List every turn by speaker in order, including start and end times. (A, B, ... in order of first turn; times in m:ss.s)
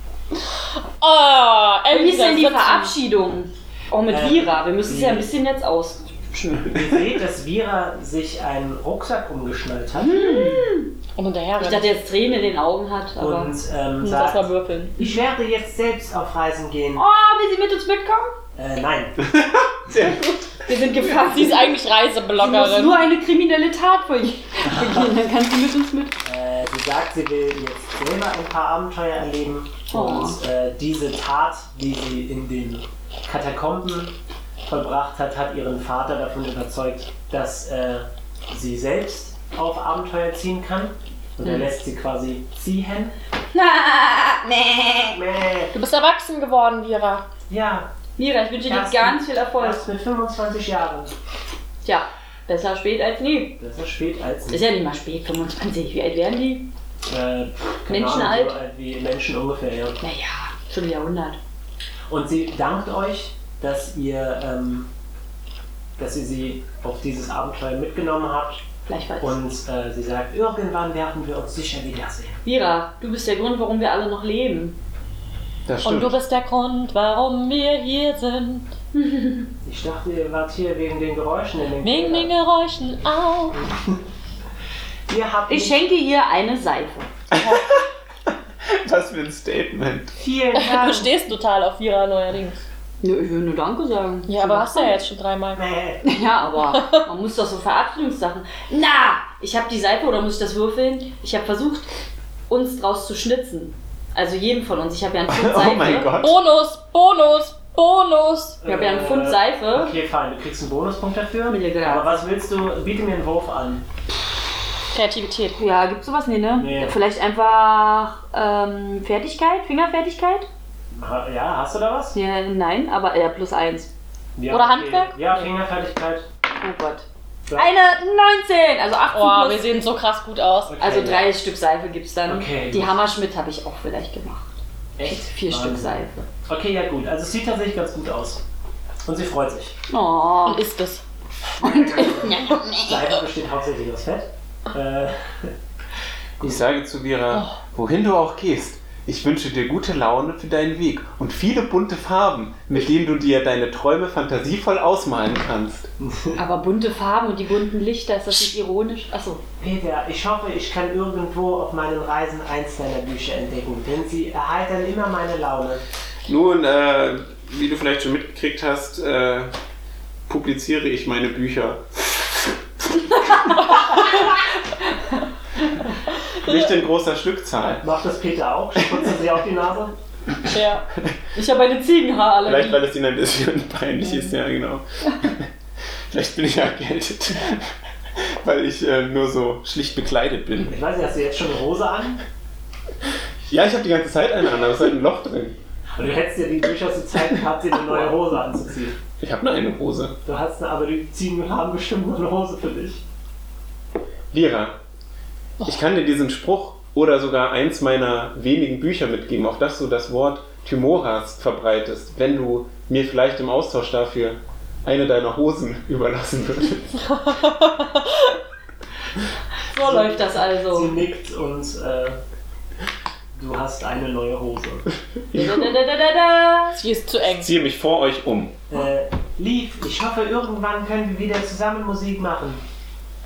0:01.0-0:02.9 A
0:01.9-0:06.8 B
0:04.1-0:05.3 C
0:06.7-0:10.4 C
0:10.0-0:10.9 B
0:11.2-0:11.9 A
0:11.6-0:13.5 B
0:13.2-0:17.0 C
0:14.0-0:14.9 A
0:17.0-0:18.3 B
0:18.6-0:19.2 C
0:19.2-0:20.4 D
0:20.6-0:21.8 B
0:21.0-0:23.0 A
0:22.4-0:26.2 B
0:26.2-0:43.1 C
0:29.9-0:30.4 B
0:43.5-0:45.2 B
0:45.1-0:45.7 C
0:45.7-0:47.2 A
0:47.5-0:47.9 C
0:48.2-0:49.8 B
0:48.7-0:51.1 C
0:51.8-0:53.6 B
0:53.6-0:54.6 C
0:54.5-0:56.7 B
0:57.1-1:00.0 C
0:57.9-0:58.6 B
1:00.0-1:01.4 B
1:02.1-1:04.9 C
1:06.0-1:08.6 C
1:08.8-1:09.4 B
1:09.2-1:12.4 C
1:12.4-1:14.8 B
1:15.6-1:16.1 D
1:15.8-1:18.7 A
1:18.9-1:19.5 B
1:19.6-1:22.3 C
1:21.8-1:23.6 A
1:23.6-1:24.0 C
1:25.1-1:25.9 C
1:25.5-1:27.1 B
1:27.3-1:27.8 D
1:27.4-1:27.7 A
1:28.6-1:30.1 D
1:30.2-1:31.1 C
1:30.5-1:32.6 A
1:33.0-1:35.0 B
1:34.3-1:35.6 A
1:35.5-1:36.0 C
1:36.0-1:41.9 B
1:36.7-1:37.0 A
1:42.5-1:46.1 B
1:45.3-1:46.4 D
1:46.2-1:48.6 A
1:48.6-1:53.8 C
1:48.6-1:49.9 B
1:51.5-1:52.2 B
1:54.9-1:55.6 A
1:55.6-2:00.5 B
1:56.5-1:57.0 C
2:00.9-2:02.2 C
2:02.1-2:03.9 B
2:04.4-2:06.2 C
2:04.5-2:05.1 A
2:06.6-2:09.6 B
2:07.5-2:07.7 C
2:09.1-2:10.7 A
2:10.6-2:11.4 C
2:10.8-2:14.5 B
2:12.3-2:13.0 C
2:15.0-2:18.4 C
2:15.0-2:16.2 B
2:19.0-2:19.7 C
2:19.9-2:20.6 B
2:20.4-2:21.0 A
2:21.5-2:25.5 C
2:21.6-2:23.2 B
2:26.4-2:35.9 D
2:36.0-2:36.4 C
2:36.3-2:39.4 B
2:39.6-2:45.8 C
2:46.2-2:49.5 D
2:50.3-2:53.4 D
2:53.2-2:54.4 B
2:56.3-2:57.8 D
2:57.7-2:59.9 C
3:00.4-3:00.8 A
3:01.3-3:02.8 B
3:02.4-3:05.5 D
3:06.1-3:10.8 D
3:10.6-3:12.2 C
3:13.5-3:15.6 D
3:16.0-3:19.0 C
3:19.2-3:20.2 D
3:20.2-3:23.0 C
3:24.3-3:24.8 D
3:25.6-3:37.1 D
3:37.3-3:38.3 A
3:39.7-3:41.0 B
3:39.7-3:42.2 C
3:43.3-3:44.8 C
3:45.3-3:45.7 D
3:45.3-3:46.8 B
3:46.8-3:47.5 A
3:47.2-3:48.6 D
3:48.7-3:52.6 C